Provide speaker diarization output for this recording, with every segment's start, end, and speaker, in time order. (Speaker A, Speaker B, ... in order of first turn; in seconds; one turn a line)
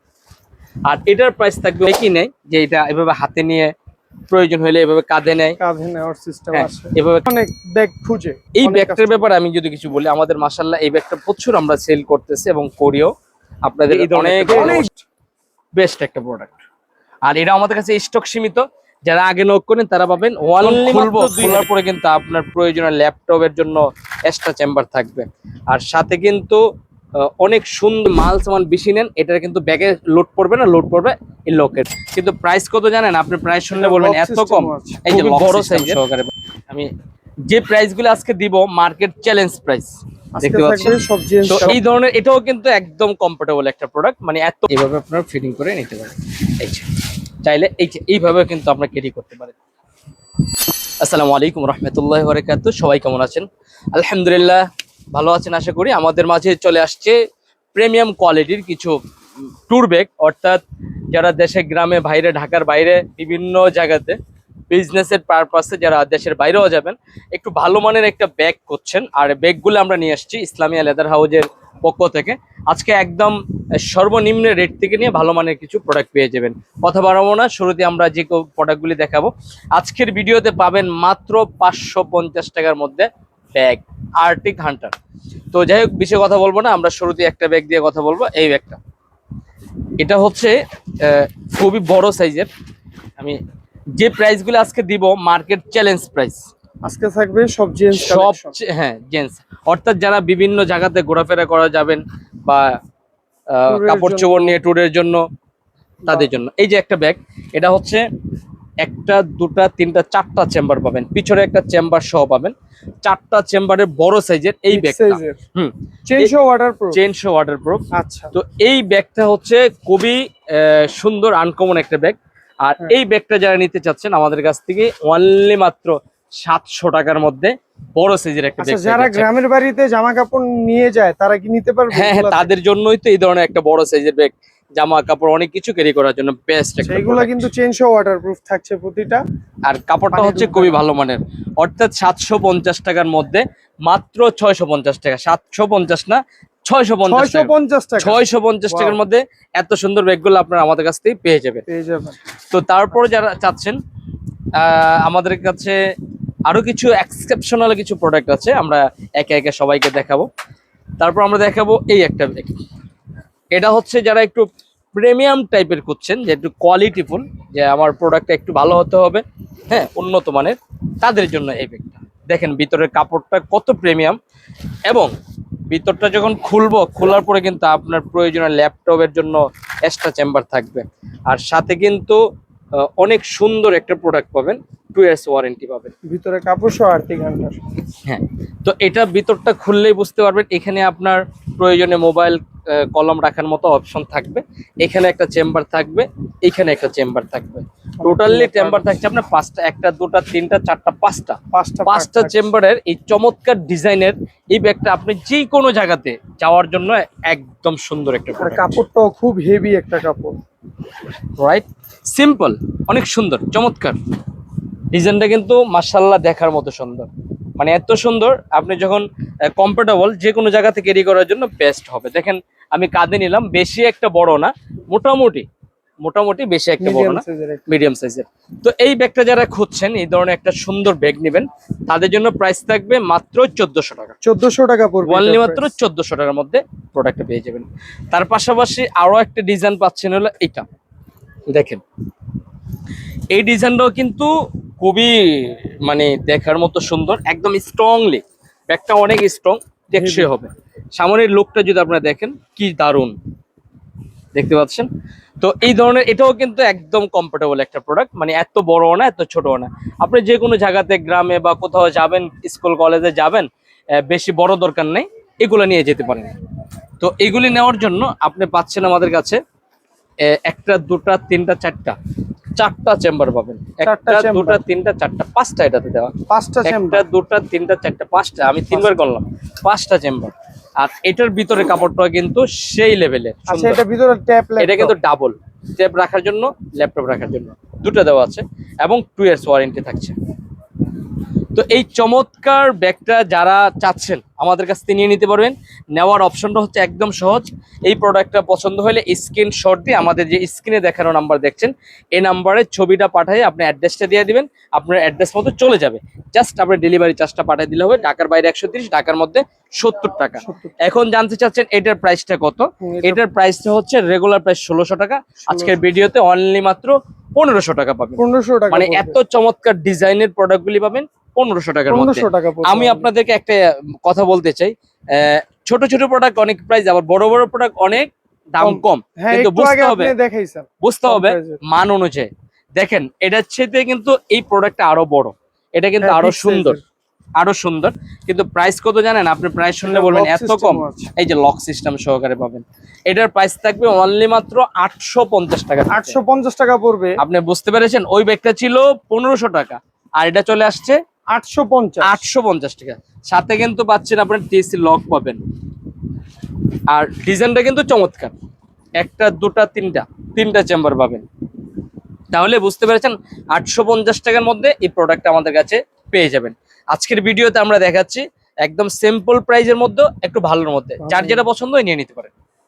Speaker A: 0.8-3.7
Speaker A: 4.3-5.6
Speaker B: 5.6-9.2
Speaker A: 6.5-7.3
Speaker A: 8.6-13.1
Speaker A: 13.6-14.9
Speaker B: 13.9-15.0
Speaker A: 15.7-16.5
Speaker A: 17.2-26.6
Speaker B: 20.9-21.6
Speaker A: 27.2-36.9
Speaker B: 33.7-36.0
Speaker A: 37.5-46.9
Speaker B: 40.3-41.8
Speaker A: 47.4-49.6
Speaker A: 51.0-57.2
Speaker A: 57.7-59.0
Speaker A: 59.7-64.2
Speaker A: 64.7-84.9
Speaker A: 85.5-88.8
Speaker A: 90.0-92.5
Speaker A: 94.0-96.4
Speaker B: 96.8-98.5
Speaker A: 97.9-102.7
Speaker A: 103.5-105.2
Speaker B: 103.7-104.6
Speaker A: 106.0-108.0
Speaker A: 108.8-116.3
Speaker B: 114.7-115.4
Speaker B: 116.0-117.0
Speaker A: 116.9-129.3
Speaker B: 117.9-118.3
Speaker B: 128.6-132.5
Speaker A: 131.9-137.4
Speaker B: 136.8-139.2
Speaker A: 139.7-151.6
Speaker B: 140.1-140.8
Speaker B: 147.1-148.9
Speaker B: 151.7-152.2
Speaker A: 152.5-153.8
Speaker A: 154.5-155.8
Speaker A: 156.5-160.3
Speaker A: 161.0-162.6
Speaker A: 163.5-174.2
Speaker A: 175.7-182.2
Speaker A: 182.8-185.9
Speaker B: 186.1-187.6
Speaker A: 188.0-208.7
Speaker B: 198.0-199.0
Speaker B: 201.5-202.5
Speaker B: 208.4-210.4
Speaker A: 211.4-214.0
Speaker A: 214.9-225.4
Speaker A: 226.0-234.1
Speaker B: 226.8-227.7
Speaker B: 234.2-235.7
Speaker A: 235.0-240.7
Speaker A: 241.5-241.8
Speaker A: 243.3-253.2
Speaker B: 249.9-250.3
Speaker A: 254.3-254.9
Speaker A: 255.4-266.3
Speaker A: 267.0-269.4
Speaker A: 270.2-271.9
Speaker A: 272.6-283.8
Speaker B: 273.8-274.6
Speaker B: 276.3-277.0
Speaker B: 283.5-284.9
Speaker A: 284.6-290.1
Speaker A: 291.5-330.1
Speaker B: 310.4-310.7
Speaker B: 312.8-313.2
Speaker B: 315.4-315.8
Speaker B: 318.2-319.2
Speaker B: 321.9-323.1
Speaker B: 328.6-331.6
Speaker A: 330.8-336.8
Speaker B: 336.0-336.8
Speaker A: 337.4-346.2
Speaker B: 339.8-341.1
Speaker B: 345.9-347.2
Speaker A: 347.2-351.0
Speaker B: 351.3-352.2
Speaker A: 352.0-355.4
Speaker A: 356.9-358.3
Speaker A: 359.0-361.2
Speaker A: 362.3-372.3
Speaker B: 371.0-371.4